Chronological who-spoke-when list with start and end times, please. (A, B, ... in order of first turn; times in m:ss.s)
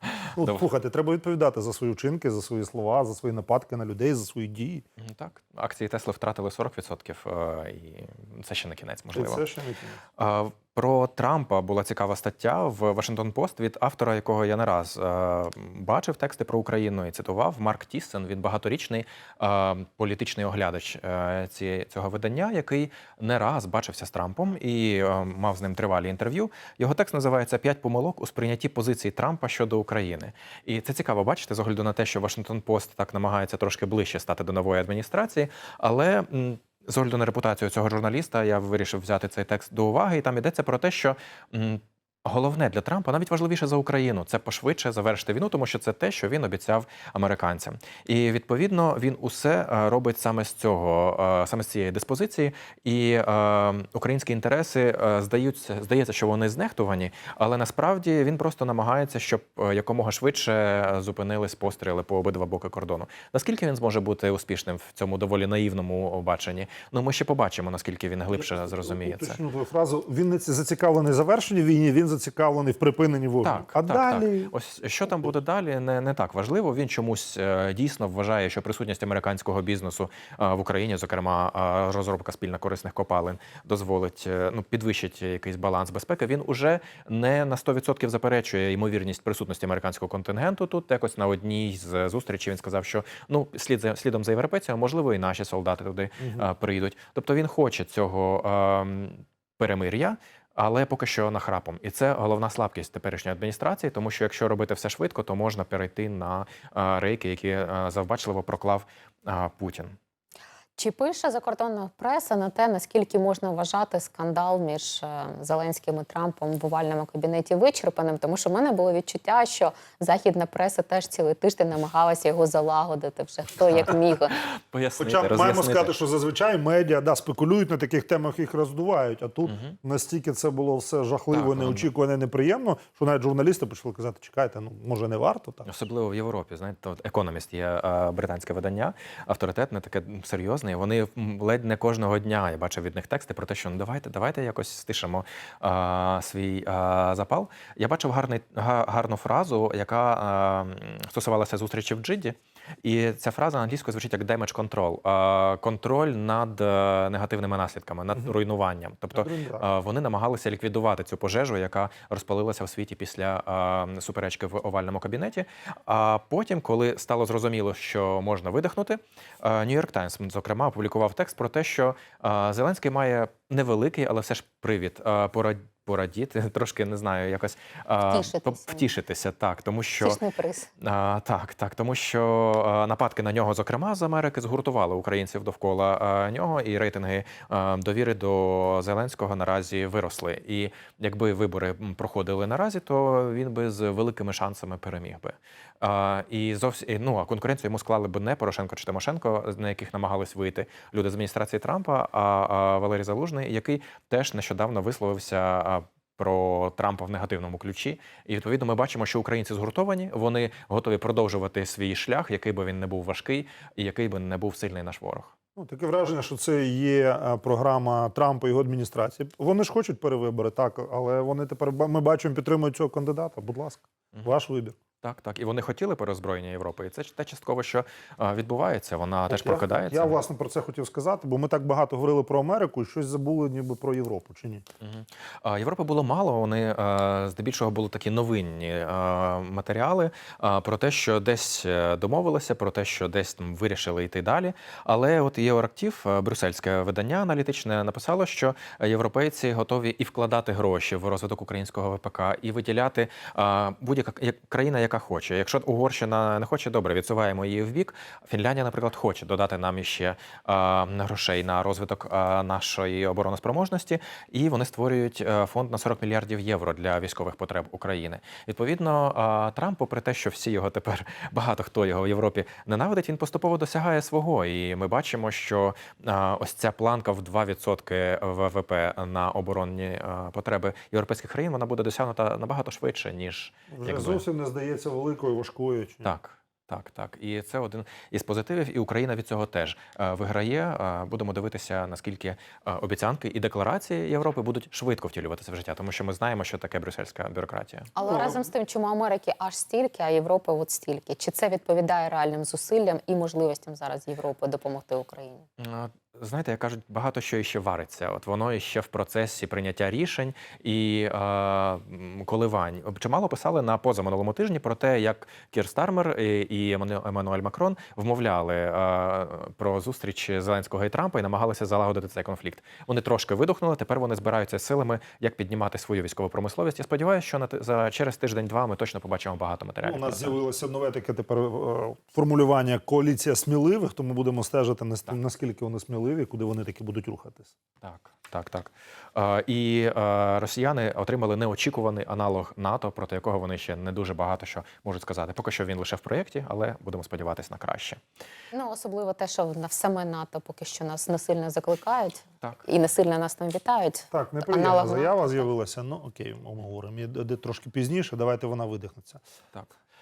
0:00.3-0:04.8 A
0:05.0-0:09.4 B
0:09.1-0:10.0 A
0:10.2-1:09.4 B
1:08.4-1:14.5 A
1:13.4-1:50.0 B
1:36.2-1:36.5 A
1:50.8-2:04.4 C
2:03.7-2:05.9 B
2:05.0-2:15.7 A
2:09.4-2:09.7 B
2:11.3-2:11.9 B
2:15.6-3:00.2 B
2:39.1-2:39.7 A
2:58.1-2:58.8 C
3:00.0-3:00.7 C
3:00.8-3:35.3 B
3:35.6-3:44.8 A
3:45.0-3:50.2 B
3:49.3-3:54.6 A
3:54.8-4:44.2 B
4:43.7-4:46.1 A
4:46.0-4:57.9 B
4:57.9-5:05.5 C
4:58.0-4:58.5 A
5:05.6-5:30.4 B
5:29.8-5:37.5 A
5:37.8-5:48.0 B
5:48.5-5:55.2 C
5:54.1-5:59.2 A